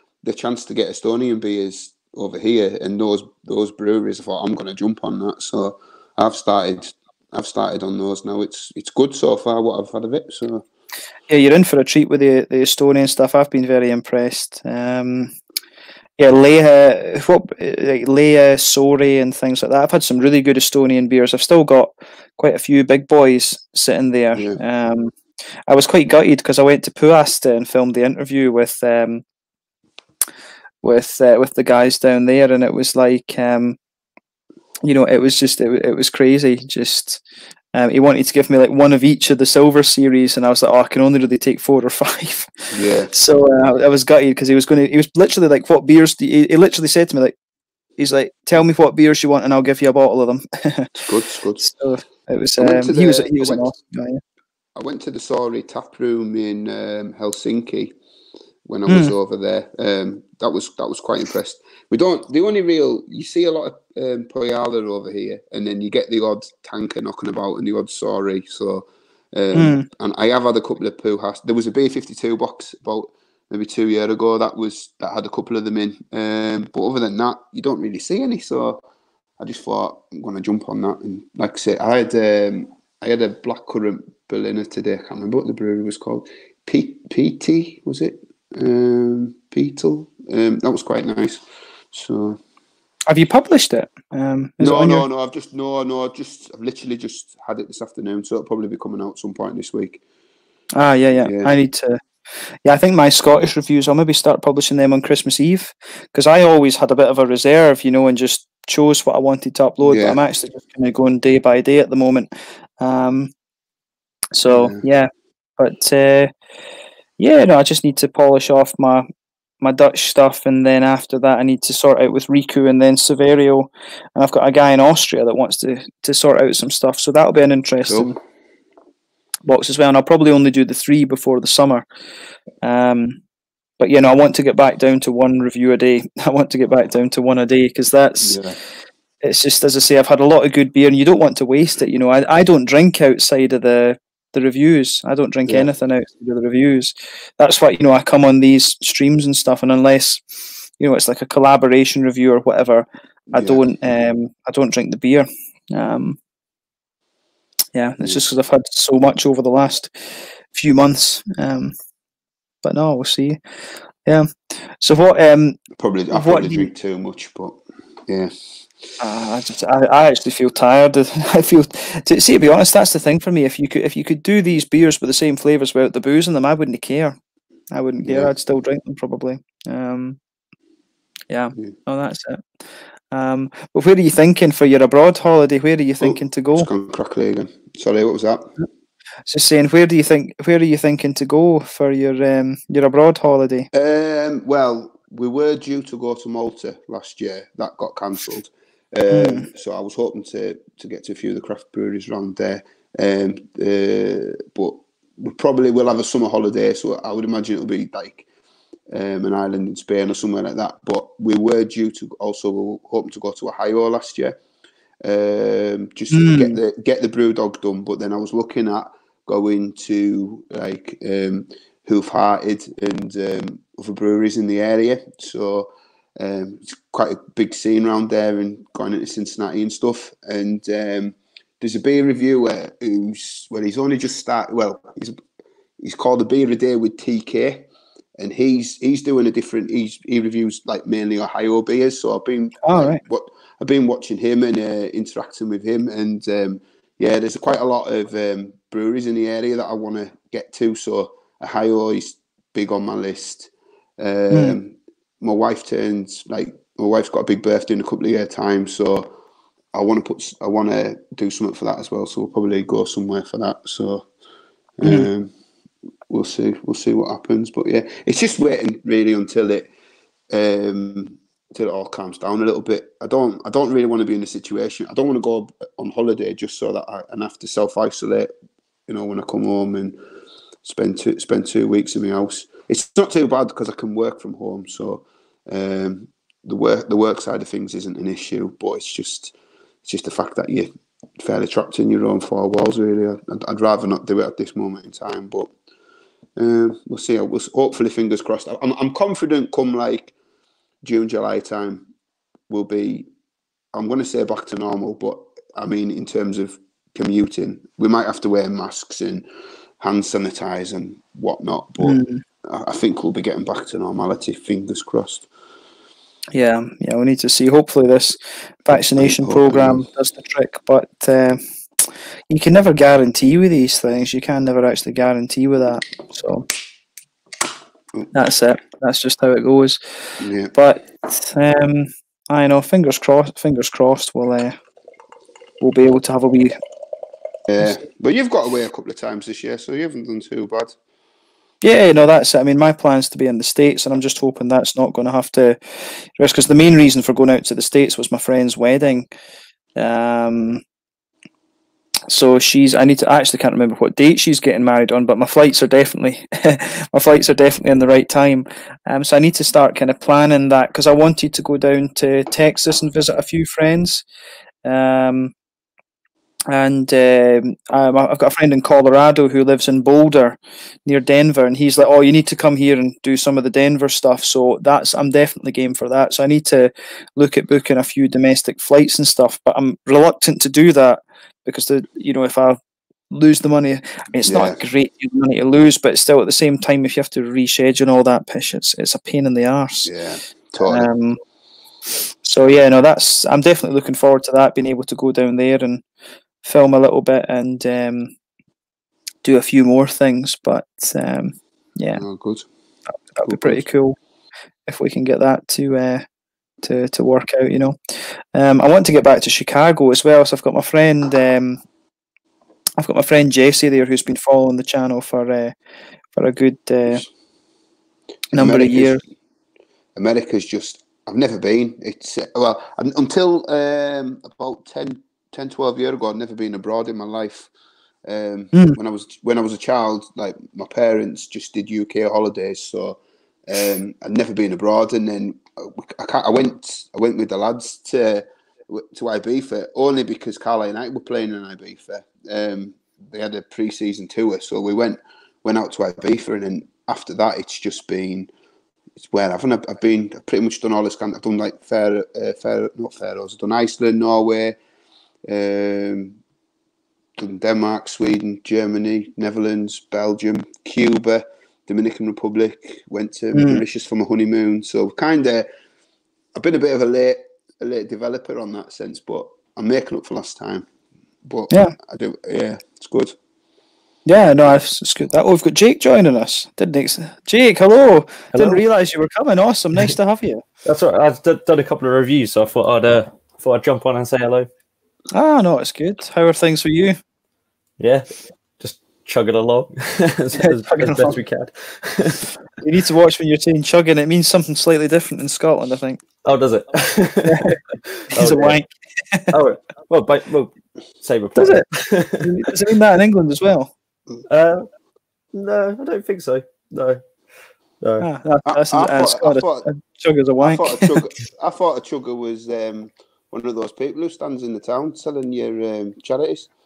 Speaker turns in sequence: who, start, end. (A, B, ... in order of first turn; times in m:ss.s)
0:00.2-0:10.6 A
0:11.3-0:15.4 B
0:16.2-0:25.1 B
0:25.7-0:29.2 B
0:30.8-0:33.8 B
0:34.8-0:37.2 B
0:37.7-0:47.4 B
0:42.7-0:43.1 A
0:48.0-0:51.0 B
0:51.1-0:51.6 A
0:51.6-0:54.2 B
0:52.6-0:53.7 A
0:54.8-0:57.9 A
0:58.6-1:18.8 A
0:58.9-0:59.1 B
1:09.5-1:09.8 B
1:19.4-1:32.4 A
1:33.1-1:35.1 B
1:34.6-1:40.0 A
1:40.8-1:42.0 B
1:41.2-1:41.5 A
1:42.6-1:53.3 B
1:49.8-1:50.2 A
1:54.4-1:56.3 B
1:54.5-1:54.8 A
1:57.2-1:59.1 B
1:59.6-2:08.2 B
2:07.9-2:08.1 A
2:09.4-2:11.8 B
2:12.6-2:13.2 B
2:13.8-2:18.4 B
2:18.2-2:18.6 A
2:19.2-2:36.2 B
2:33.3-2:33.6 A
2:37.7-2:41.7 B
2:42.6-2:43.4 B
2:44.0-2:45.6 B
2:45.8-2:48.3 A
2:46.1-2:46.7 B
2:49.0-2:57.2 B
2:57.7-3:00.2 B
2:58.0-2:58.3 A
3:01.3-3:02.4 B
3:03.1-3:06.7 B
3:06.0-3:08.5 A
3:09.3-3:13.7 B
3:13.7-3:28.2 A
3:19.1-3:19.5 B
3:28.9-3:34.4 A
3:35.0-3:55.2 A
3:36.1-3:36.6 B
3:55.8-4:19.1 A
4:02.6-4:03.0 B
4:14.3-4:14.6 B
4:19.7-4:24.1 A
4:24.8-4:25.3 A
4:26.1-4:29.7 A
4:30.3-4:38.3 A
4:38.9-4:40.0 A
4:40.6-4:55.5 A
4:56.4-5:00.1 A
5:00.8-5:01.9 A
5:02.5-5:03.1 A
5:03.7-5:09.3 A
5:09.8-5:15.3 A
5:11.8-5:12.2 B
5:16.3-5:21.4 B
5:18.8-5:19.8 A
5:22.3-5:26.4 B
5:28.1-5:29.8 B
5:30.2-5:30.5 A
5:30.5-5:34.6 B
5:35.6-5:36.6 B
5:37.5-5:40.8 A
5:41.6-5:49.1 B
5:49.8-5:50.6 B
5:52.1-6:04.0 B
6:04.6-6:05.3 B
6:06.5-6:29.9 B
6:24.3-6:24.6 A
6:29.8-6:30.9 A
6:30.6-6:31.2 B
6:32.2-6:35.8 B
6:36.4-6:38.1 B
6:39.2-6:42.0 B
6:42.0-6:42.4 A
6:43.1-6:44.0 B
6:43.3-6:43.6 A
6:44.7-6:46.0 B
6:46.6-6:51.6 B
6:52.8-6:55.6 B
6:56.1-6:57.0 B
6:58.3-6:59.0 B
6:58.4-6:59.0 A
7:00.0-7:07.5 A
7:08.1-7:28.3 A
7:29.0-7:34.6 A
7:35.3-7:36.2 A
7:37.2-7:45.5 A
7:43.3-7:43.6 B
7:46.4-7:50.7 A
7:51.2-7:53.2 A
7:51.5-7:51.7 B
7:54.1-8:00.4 B
7:58.3-7:58.6 C
8:00.6-8:04.5 C
8:05.1-8:07.0 B
8:07.8-8:12.3 C
8:10.4-8:11.2 B
8:12.6-8:16.0 B
8:16.2-8:18.6 C
8:17.3-8:17.6 B
8:18.1-8:19.3 B
8:19.3-8:22.5 C
8:21.4-8:21.7 B
8:22.2-8:23.7 B
8:24.3-8:24.7 C
8:25.3-8:27.0 C
8:27.8-8:28.1 C
8:28.0-8:30.9 B
8:28.4-8:29.7 A
8:30.4-8:36.5 A